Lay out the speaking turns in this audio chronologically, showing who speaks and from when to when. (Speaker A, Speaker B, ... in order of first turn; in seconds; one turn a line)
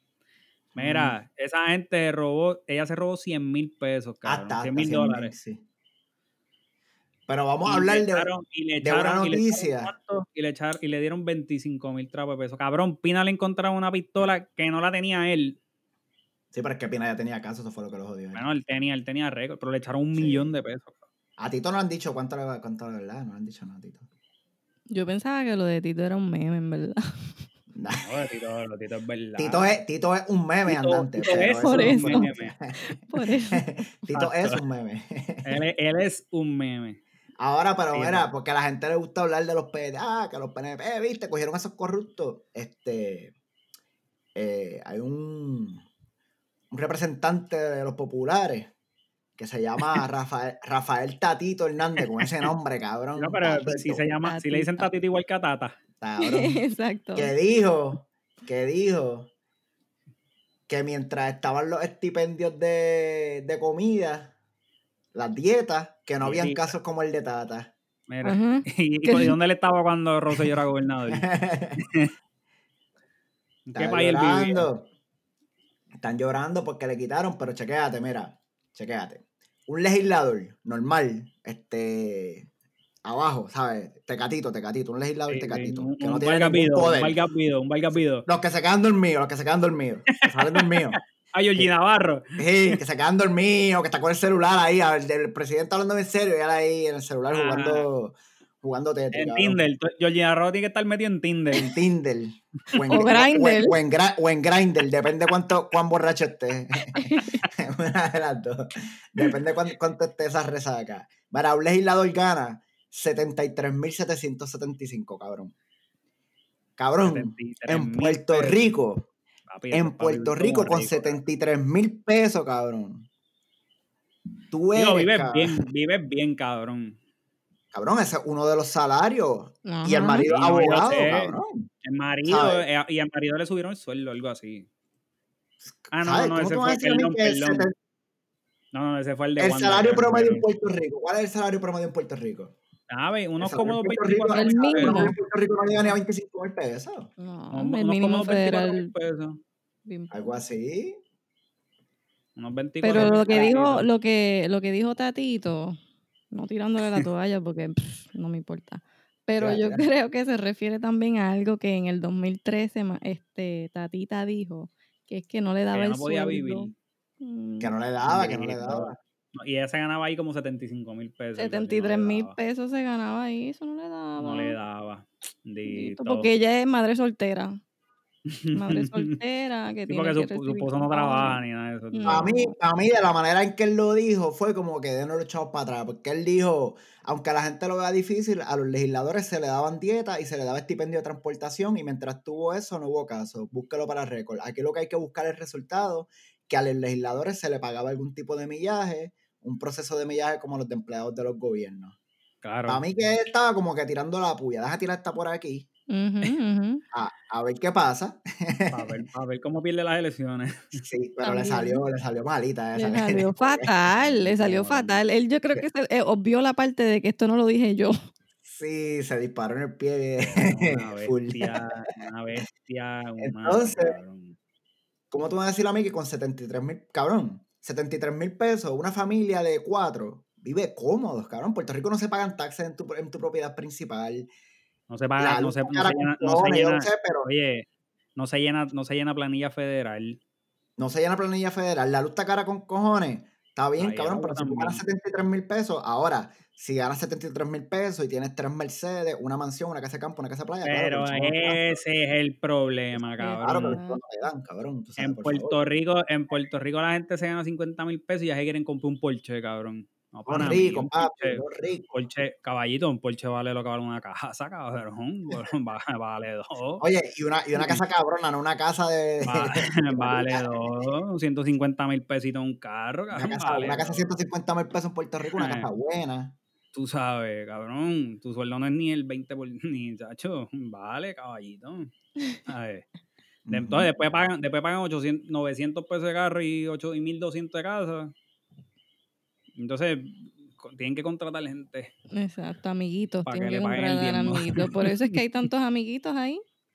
Speaker A: 0.8-1.2
Speaker B: 0.8-5.3
Speaker A: 4.2-5.6
Speaker A: 7.3-8.3
Speaker B: 7.7-15.6
Speaker A: 8.8-9.9
Speaker A: 16.5-18.5
Speaker B: 18.3-21.1
Speaker A: 20.2-20.5
Speaker A: 21.4-24.1
Speaker C: 24.9-27.0
Speaker A: 27.7-28.1
Speaker B: 28.0-29.7
Speaker A: 29.4-35.6
Speaker B: 30.7-32.5
Speaker C: 31.6-34.1
Speaker B: 34.1-34.6
Speaker B: 35.5-37.0
Speaker A: 37.4-43.3
Speaker B: 37.9-38.3
Speaker A: 44.4-45.8
Speaker A: 46.7-48.7
Speaker A: 49.4-54.0
Speaker B: 52.0-52.5
Speaker B: 53.2-55.8
Speaker C: 54.2-54.9
Speaker A: 56.0-56.6
Speaker C: 56.2-57.3
Speaker A: 57.2-59.3
Speaker A: 60.7-64.3
Speaker A: 65.1-67.7
Speaker B: 66.2-66.7
Speaker B: 68.1-71.3
Speaker C: 68.2-69.4
Speaker A: 71.1-71.8
Speaker B: 71.8-72.1
Speaker B: 73.7-74.7
Speaker A: 73.8-74.9
Speaker A: 76.0-82.5
Speaker A: 83.0-87.2
Speaker B: 85.3-88.3
Speaker A: 88.2-91.0
Speaker B: 90.1-92.8
Speaker A: 92.4-99.6
Speaker B: 97.3-97.9
Speaker B: 99.1-101.7
Speaker A: 101.5-115.5
Speaker C: 102.9-103.8
Speaker C: 107.0-107.4
Speaker A: 116.8-119.1
Speaker B: 117.0-118.7
Speaker B: 119.5-121.2
Speaker A: 119.7-123.1
Speaker A: 124.5-125.6
Speaker B: 124.7-127.0
Speaker A: 127.7-131.7
Speaker C: 129.7-130.3
Speaker B: 130.2-134.7
Speaker A: 132.2-132.6
Speaker A: 135.7-137.7
Speaker B: 135.9-137.7
Speaker B: 138.7-140.5
Speaker A: 139.4-142.6
Speaker B: 142.9-145.1
Speaker A: 143.4-147.1
Speaker C: 144.3-145.2
Speaker C: 147.2-148.9
Speaker B: 147.5-149.4
Speaker C: 149.9-150.4
Speaker A: 150.1-151.0
Speaker B: 152.4-153.9
Speaker C: 152.8-155.8
Speaker A: 152.9-153.5
Speaker C: 156.3-166.7
Speaker A: 159.4-159.9
Speaker B: 165.7-166.7
Speaker C: 167.2-167.7
Speaker A: 167.6-169.0
Speaker B: 168.1-172.3
Speaker C: 171.4-174.6
Speaker B: 174.2-176.3
Speaker C: 175.7-177.6
Speaker B: 178.3-179.2
Speaker C: 178.5-181.4
Speaker B: 179.9-182.3
Speaker C: 181.9-182.5
Speaker A: 182.1-202.0
Speaker B: 202.4-202.8
Speaker A: 202.7-205.7
Speaker C: 205.9-206.8
Speaker A: 206.9-208.9
Speaker B: 208.7-210.8
Speaker A: 210.8-214.9
Speaker C: 211.2-211.8
Speaker C: 212.8-217.9
Speaker A: 218.4-221.7
Speaker B: 220.2-224.4
Speaker A: 223.2-224.0
Speaker A: 225.1-234.3
Speaker B: 234.9-240.2
Speaker A: 235.2-237.3
Speaker A: 240.8-251.8
Speaker B: 243.8-244.8
Speaker B: 250.6-253.8
Speaker C: 253.1-254.0
Speaker A: 253.4-255.6
Speaker B: 255.0-266.9
Speaker A: 260.3-261.9
Speaker A: 266.8-270.9
Speaker B: 267.6-267.8
Speaker B: 269.2-274.2
Speaker A: 273.1-276.4
Speaker B: 275.4-275.7
Speaker B: 276.7-282.9
Speaker A: 283.5-283.9
Speaker B: 283.5-288.1
Speaker B: 289.6-291.9
Speaker C: 292.1-296.4
Speaker B: 293.3-295.2